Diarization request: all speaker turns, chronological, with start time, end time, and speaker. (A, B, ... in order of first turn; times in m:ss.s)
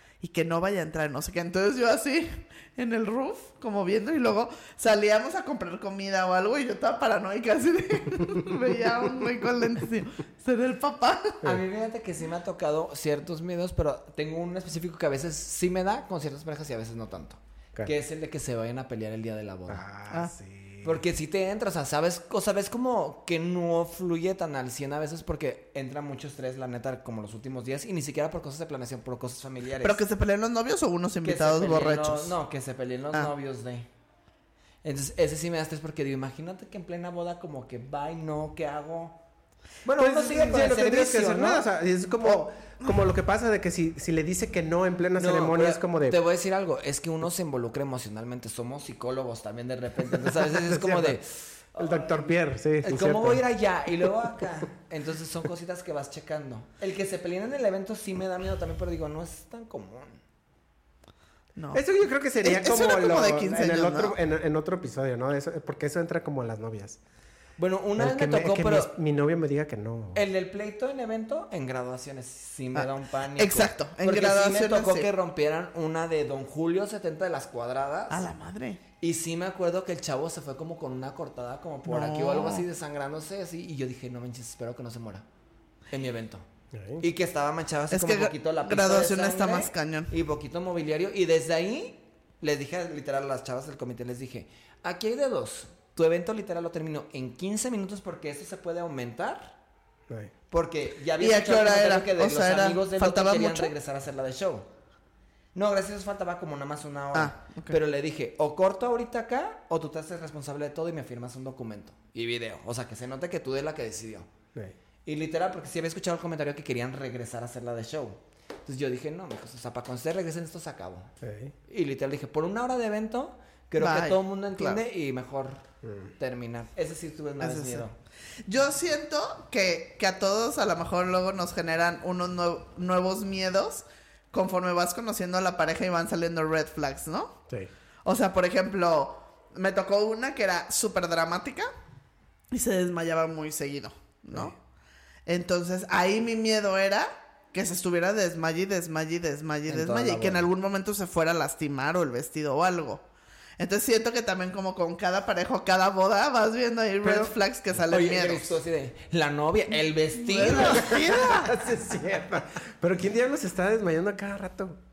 0:00.2-0:11.4 A
0:11.4-0:19.8 B
0:19.7-0:21.0 C
0:20.8-0:30.0 B
0:29.8-0:32.3 A
0:31.2-0:33.9 B
0:34.8-0:39.2 B
0:39.8-0:41.6 B
0:40.0-0:46.2 C
0:42.3-0:42.9 A
0:45.2-1:00.2 B
0:50.5-0:51.2 C
0:51.8-0:53.4 C
1:01.6-1:01.8 A
1:01.7-1:07.0 C
1:02.4-1:04.2 A
1:07.6-1:08.9 B
1:08.0-1:10.2 C
1:10.1-1:18.2 B
1:12.8-1:15.1 A
1:18.1-1:18.8 A
1:19.0-1:25.2 B
1:21.9-1:22.6 A
1:25.9-1:26.4 B
1:26.7-1:27.0 C
1:27.0-1:39.6 B
1:27.9-1:30.1 A
1:40.5-1:44.7 B
1:41.2-1:43.7 A
1:45.5-1:54.3 B
1:47.1-1:47.8 A
1:55.0-2:01.1 B
2:01.2-2:01.5 C
2:01.7-2:05.6 B
2:03.8-2:04.8 A
2:05.8-2:06.1 C
2:06.2-2:07.9 B
2:07.4-2:07.8 A
2:08.4-2:17.4 A
2:18.0-2:21.7 A
2:22.5-2:24.6 A
2:25.2-2:33.0 A
2:29.7-2:30.5 B
2:33.6-2:38.6 A
2:37.0-2:37.3 C
2:37.9-2:41.0 B
2:40.1-2:41.8 A
2:40.5-2:44.8 C